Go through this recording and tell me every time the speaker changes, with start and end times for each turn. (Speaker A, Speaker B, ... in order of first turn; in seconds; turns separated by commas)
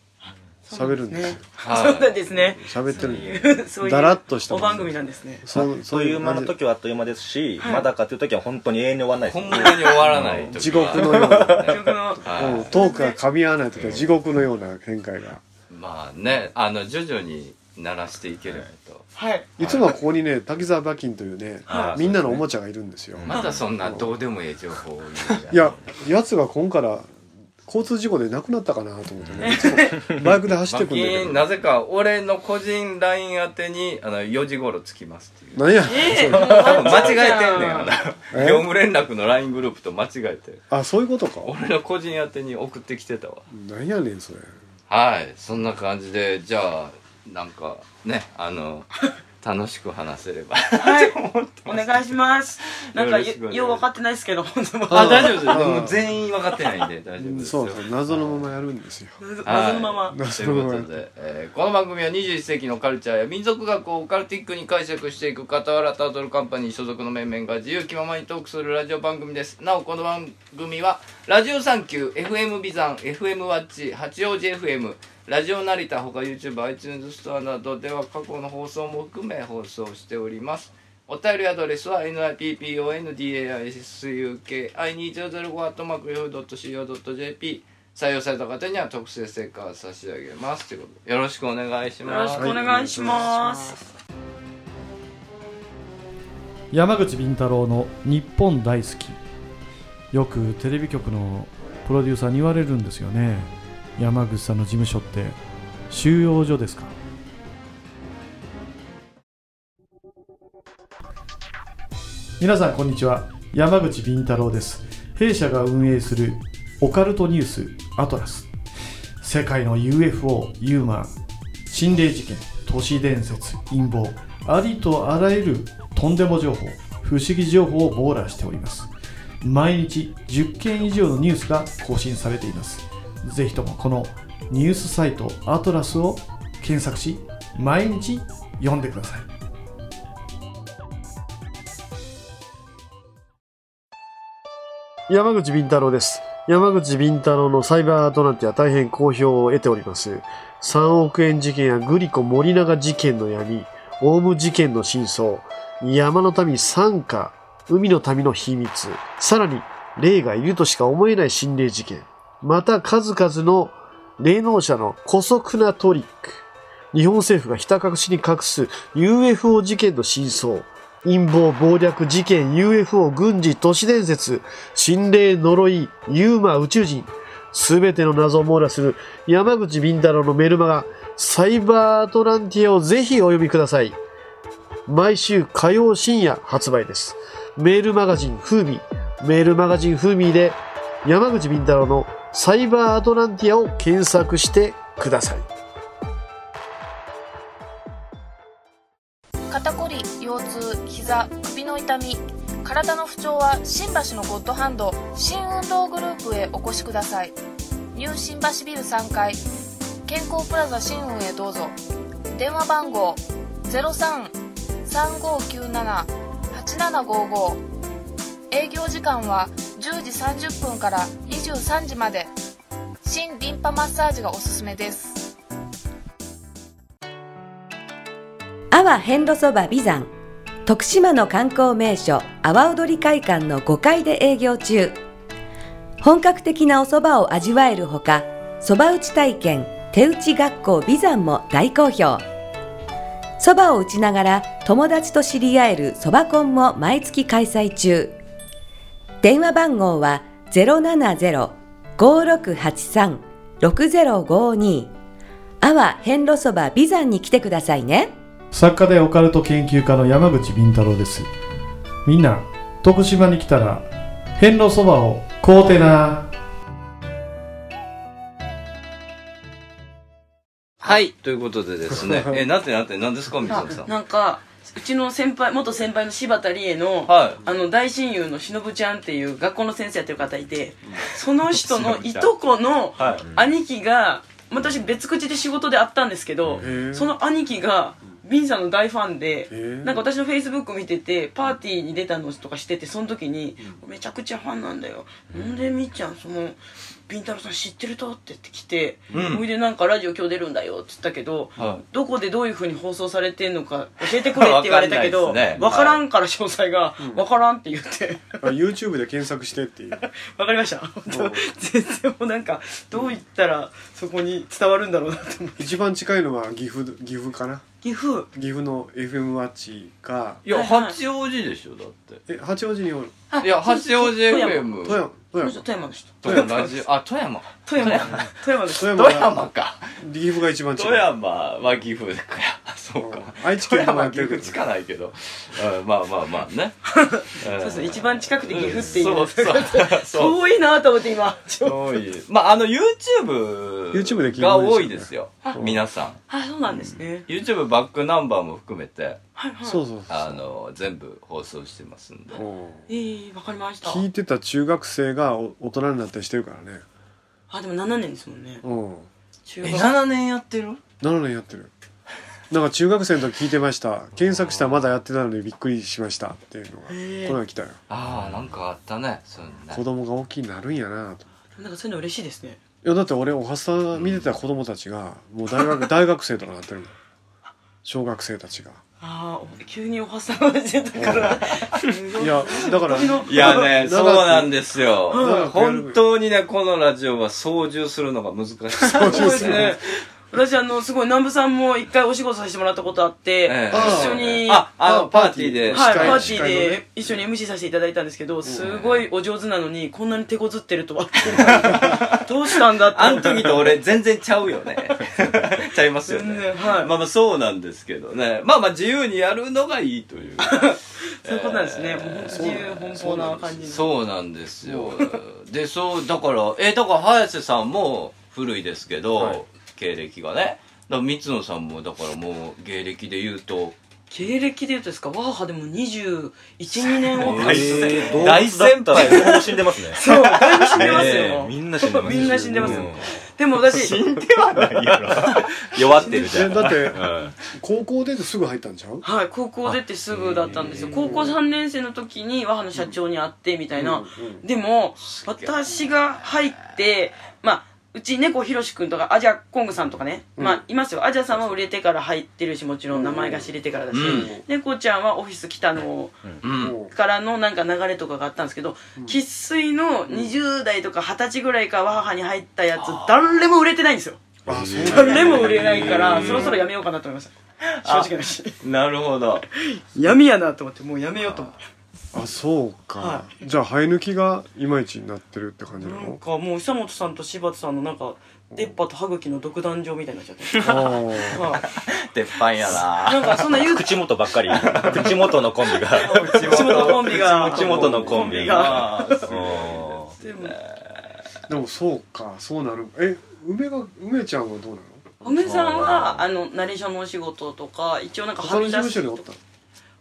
Speaker A: 0.2-5.4, Speaker B: 0.7-1.5, Speaker C: 1.6-2.1, Speaker B: 2.3-6.5, Speaker D: 5.5-11.3, Speaker A: 7.6-7.9, Speaker C: 9.3-12.7, Speaker B: 9.5-15.4, Speaker A: 11.7-13.2, Speaker D: 13.8-14.0, Speaker C: 15.7-19.0, Speaker A: 19.1-19.5, Speaker B: 19.6-24.2, Speaker A: 21.7-22.0, Speaker D: 21.7-22.4, Speaker D: 23.1-23.6, Speaker C: 23.3-25.8, Speaker A: 23.3-23.6, Speaker B: 25.5-27.1, Speaker B: 27.6-31.5, Speaker D: 29.2-30.3, Speaker A: 29.4-30.0, Speaker C: 30.7-40.6, Speaker B: 35.5-37.2, Speaker A: 35.9-37.9, Speaker B: 38.3-38.7, Speaker B: 40.7-41.5, Speaker C: 41.4-43.4, Speaker B: 43.5-44.5, Speaker C: 44.9-52.1, Speaker A: 50.8-55.6, Speaker C: 52.9-53.8, Speaker B: 54.9-56.1, Speaker C: 54.9-57.9, Speaker B: 57.2-59.2, Speaker A: 59.2-60.2, Speaker C: 59.4-92.5, Speaker B: 60.1-60.9, Speaker A: 92.0-93.8, Speaker B: 92.3-93.5, Speaker E: 96.7-99.2, Speaker E: 100.1-105.4, Speaker E: 105.9-106.9, Speaker E: 112.4-118.5, Speaker E: 119.2-121.1, Speaker E: 121.7-128.9, Speaker E: 129.4-139.3, Speaker B: 145.1-184.0, Speaker B: 184.9-195.5, Speaker F: 199.5-207.3, Speaker F: 207.9-209.4, Speaker F: 210.0-211.8, Speaker F: 212.3-217.6, Speaker F: 218.5-222.3, Speaker F: 223.0-225.3, Speaker G: 228.7-230.1, Speaker G: 230.7-235.0, Speaker G: 236.0-242.2, Speaker G: 243.4-248.2, Speaker G: 249.2-254.9, Speaker G: 255.6-258.1, Speaker E: 258.5-261.3, Speaker E: 262.0-266.3, Speaker C: 270.8-273.9, Speaker B: 271.9-272.4, Speaker A: 273.5-308.4, Speaker C: 277.1-277.4, Speaker C: 281.5-282.3, Speaker C: 283.0-283.2, Speaker D: 283.0-283.4, Speaker B: 286.6-287.1, Speaker B: 289.5-290.0, Speaker B: 299.1-299.4, Speaker C: 299.1-299.4, Speaker C: 301.6-301.8, Speaker C: 304.0-306.0, Speaker B: 305.6-305.9, Speaker B: 307.0-307.2, Speaker B: 308.4-310.0, Speaker A: 310.0-315.7, Speaker B: 311.1-311.4, Speaker B: 315.6-317.6, Speaker A: 317.8-318.3, Speaker B: 318.3-320.4, Speaker C: 320.4-322.2, Speaker A: 320.5-321.0, Speaker B: 322.3-323.2, Speaker A: 323.3-326.7, Speaker C: 323.4-325.0, Speaker B: 324.6-325.6, Speaker B: 326.2-326.5, Speaker C: 326.2-329.9, Speaker A: 327.6-329.0, Speaker B: 328.0-329.5, Speaker B: 330.0-331.1, Speaker C: 330.8-336.8, Speaker B: 333.0-334.6, Speaker A: 336.9-341.8, Speaker C: 337.4-340.4, Speaker C: 341.6-346.2, Speaker B: 343.9-345.8, Speaker A: 346.3-347.2, Speaker B: 346.7-347.0, Speaker C: 347.3-349.2, Speaker A: 349.4-349.8, Speaker B: 349.6-350.4, Speaker C: 350.1-352.4, Speaker B: 352.3-352.9, Speaker A: 352.9-354.0, Speaker B: 353.8-356.8, Speaker A: 357.5-358.6, Speaker B: 358.6-359.1, Speaker A: 359.4-359.9, Speaker C: 359.6-360.8, Speaker B: 361.0-361.7, Speaker B: 362.5-367.8, Speaker A: 366.9-367.4, Speaker C: 367.9-369.8, Speaker B: 369.7-371.3, Speaker A: 371.6-372.6, Speaker B: 372.8-376.9, Speaker B: 377.8-378.8, Speaker A: 379.0-383.7, Speaker B: 381.0-381.4, Speaker B: 382.1-384.6, Speaker C: 383.2-389.7, Speaker B: 385.1-386.0, Speaker A: 385.1-385.5, Speaker B: 388.8-389.8, Speaker A: 389.0-394.7, Speaker C: 393.4-396.3, Speaker B: 393.7-396.8, Speaker A: 395.7-403.7, Speaker C: 401.3-402.2, Speaker B: 401.4-402.0, Speaker C: 402.8-423.8, Speaker A: 406.1-406.9, Speaker A: 410.4-413.8, Speaker B: 412.3-413.7, Speaker A: 424.1-428.4, Speaker C: 427.1-431.5, Speaker D: 427.2-430.0, Speaker A: 429.0-429.4, Speaker A: 429.9-434.0, Speaker D: 430.7-433.1, Speaker B: 432.0-433.1, Speaker C: 433.7-436.9, Speaker D: 434.5-437.4, Speaker A: 436.0-436.5, Speaker B: 436.3-439.0, Speaker A: 439.0-464.2, Speaker D: 439.6-441.1, Speaker C: 440.7-441.1, Speaker B: 440.9-441.3, Speaker B: 443.8-444.4, Speaker C: 445.0-445.9, Speaker B: 450.4-450.6, Speaker B: 452.9-454.4, Speaker C: 453.9-454.3, Speaker C: 456.4-456.8, Speaker B: 456.5-456.9, Speaker C: 462.8-463.2, Speaker D: 464.5-466.4, Speaker B: 464.5-466.6, Speaker A: 464.8-468.6, Speaker C: 465.8-466.5, Speaker C: 467.7-469.4, Speaker A: 469.6-471.6, Speaker B: 472.1-476.2, Speaker A: 473.0-473.3, Speaker A: 475.8-481.6, Speaker B: 478.5-478.8, Speaker B: 480.6-481.4, Speaker C: 481.8-483.4, Speaker A: 483.0-484.1, Speaker D: 483.5-490.1, Speaker C: 484.5-491.1, Speaker A: 484.7-485.0, Speaker A: 486.0-489.3, Speaker B: 487.6-488.1, Speaker A: 490.2-490.6, Speaker B: 491.5-495.2, Speaker A: 495.2-499.2, Speaker D: 495.2-496.2, Speaker B: 498.4-499.4